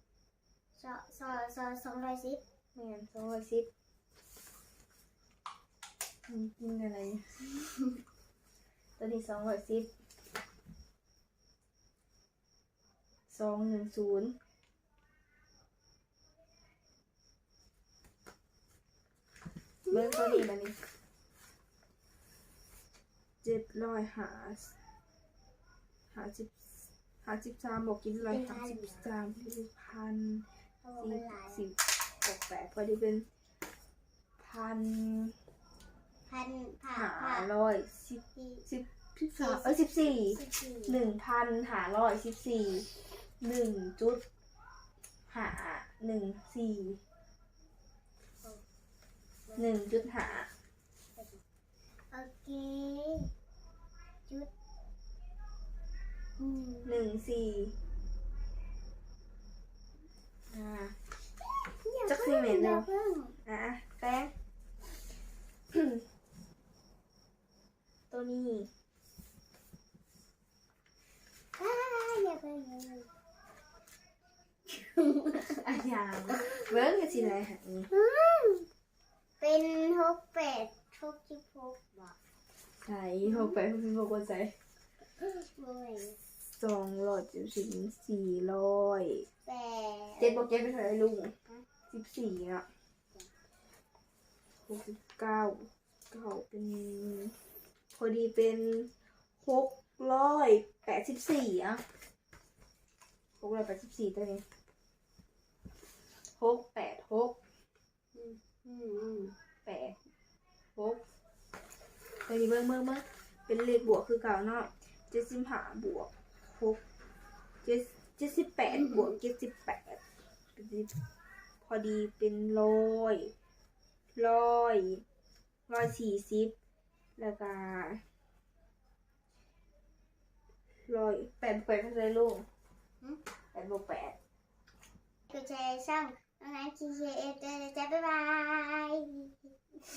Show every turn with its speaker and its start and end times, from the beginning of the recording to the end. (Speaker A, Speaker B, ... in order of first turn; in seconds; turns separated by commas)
Speaker A: 0.8-2.4, Speaker B: 2.7-3.7, Speaker B: 6.3-7.6, Speaker B: 9.0-10.0, Speaker B: 13.3-14.4, Speaker A: 19.9-20.4, Speaker B: 19.9-20.8, Speaker B: 23.4-24.7, Speaker B: 26.1-30.4, Speaker A: 28.2-29.0, Speaker A: 30.8-31.7, Speaker B: 31.0-33.3, Speaker B: 34.4-35.4, Speaker A: 36.3-37.5, Speaker B: 36.9-42.9, Speaker A: 38.4-38.6, Speaker A: 39.4-41.0, Speaker B: 43.4-44.2, Speaker B: 45.3-47.0, Speaker B: 49.5-50.5, Speaker A: 51.1-51.4, Speaker A: 52.1-53.3, Speaker A: 56.4-57.0, Speaker B: 56.8-57.8, Speaker B: 60.5-61.0, Speaker A: 61.5-63.4, Speaker B: 62.0-62.9, Speaker B: 63.4-64.3, Speaker B: 65.7-66.0, Speaker B: 68.1-68.7, Speaker A: 71.5-73.1, Speaker B: 75.1-77.9, Speaker A: 77.9-78.7, Speaker A: 79.4-82.2, Speaker B: 82.8-84.5, Speaker A: 83.2-83.5, Speaker A: 85.2-86.2, Speaker B: 86.4-89.3, Speaker A: 89.4-90.5, Speaker B: 90.2-91.3, Speaker B: 91.9-92.7, Speaker B: 94.7-97.4, Speaker B: 97.9-98.9, Speaker B: 99.4-101.9, Speaker B: 103.4-104.5, Speaker B: 106.1-107.3, Speaker A: 108.1-109.3, Speaker B: 109.6-110.0, Speaker B: 110.8-111.0, Speaker B: 112.2-116.8, Speaker B: 117.6-120.0, Speaker B: 120.5-121.1, Speaker B: 121.6-123.3, Speaker B: 124.1-125.0, Speaker B: 125.7-126.5, Speaker B: 127.2-128.0, Speaker B: 130.8-132.5, Speaker B: 133.5-134.2, Speaker A: 135.3-139.5